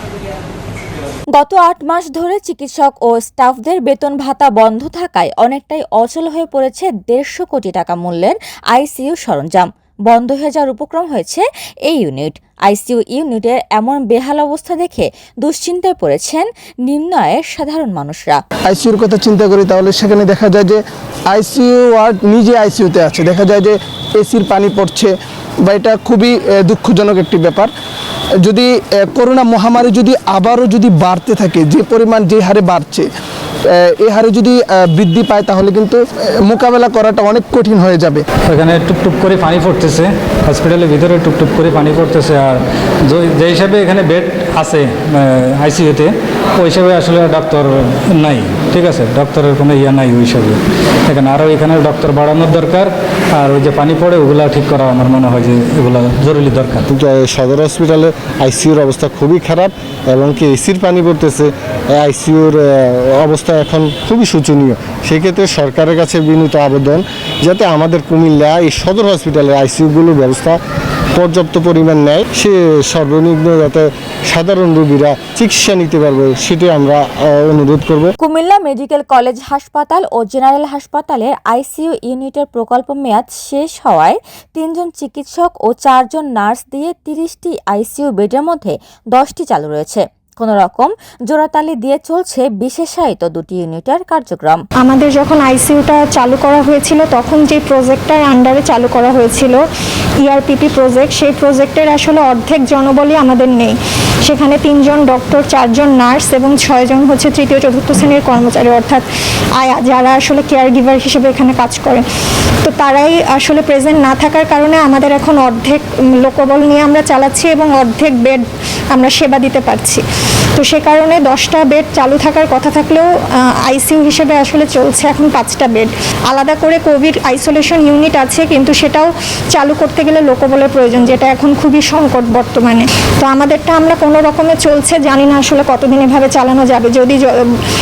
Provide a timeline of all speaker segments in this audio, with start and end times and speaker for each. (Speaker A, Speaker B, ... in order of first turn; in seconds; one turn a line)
Speaker A: 1.3-18.4
Speaker B: 18.7-27.7
Speaker B: 28.4-33.1
Speaker B: 33.7-38.2
Speaker C: 38.5-56.9
Speaker D: 56.9-70.6
Speaker D: 71.2-78.1
Speaker A: 78.2-94.6
Speaker E: 94.8-99.6
Speaker E: 100.2-109.1
Speaker E: 109.6-112.0
Speaker E: 112.6-120.0
Speaker E: 120.6-123.1
Speaker E: 123.6-137.4